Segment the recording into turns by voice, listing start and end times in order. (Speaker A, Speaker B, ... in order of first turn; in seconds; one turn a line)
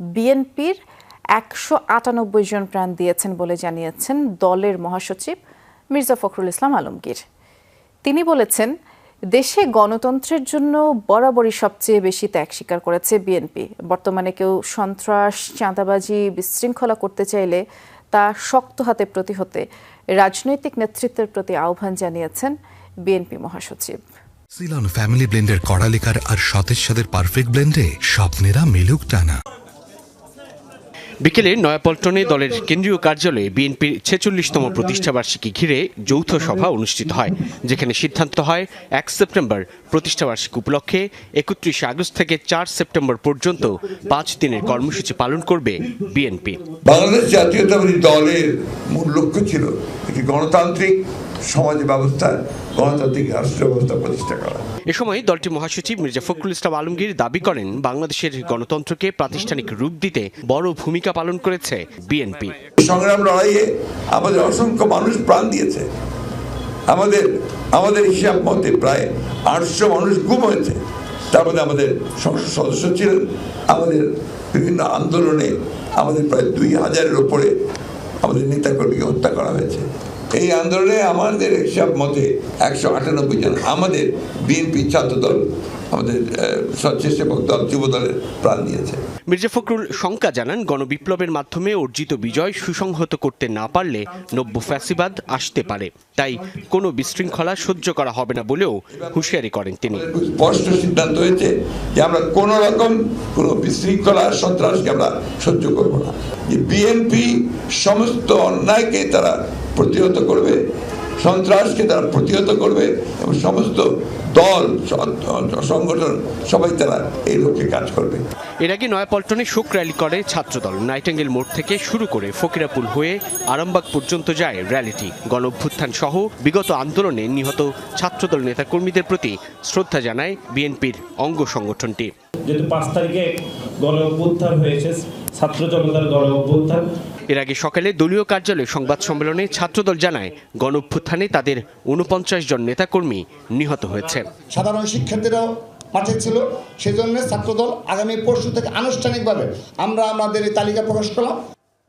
Speaker A: 0.1-0.8
Speaker A: 1.4-5.4
Speaker A: 5.9-7.2
Speaker A: 8.1-8.7
Speaker A: 9.3-17.6
Speaker A: 18.1-19.6
Speaker A: 20.2-22.6
Speaker A: 23.1-24.0
Speaker B: 24.6-29.4
Speaker C: 31.2-46.6
Speaker D: 46.9-54.6
Speaker C: 54.9-62.6
Speaker D: 62.8-65.9
Speaker D: 66.9-70.8
Speaker D: 71.3-77.5
Speaker D: 78.2-89.0
Speaker C: 89.3-100.1
Speaker D: 99.9-110.6
Speaker D: 111.2-118.2
Speaker C: 118.6-132.1
Speaker E: 132.5-136.9
Speaker C: 137.3-144.3
Speaker F: 144.5-151.4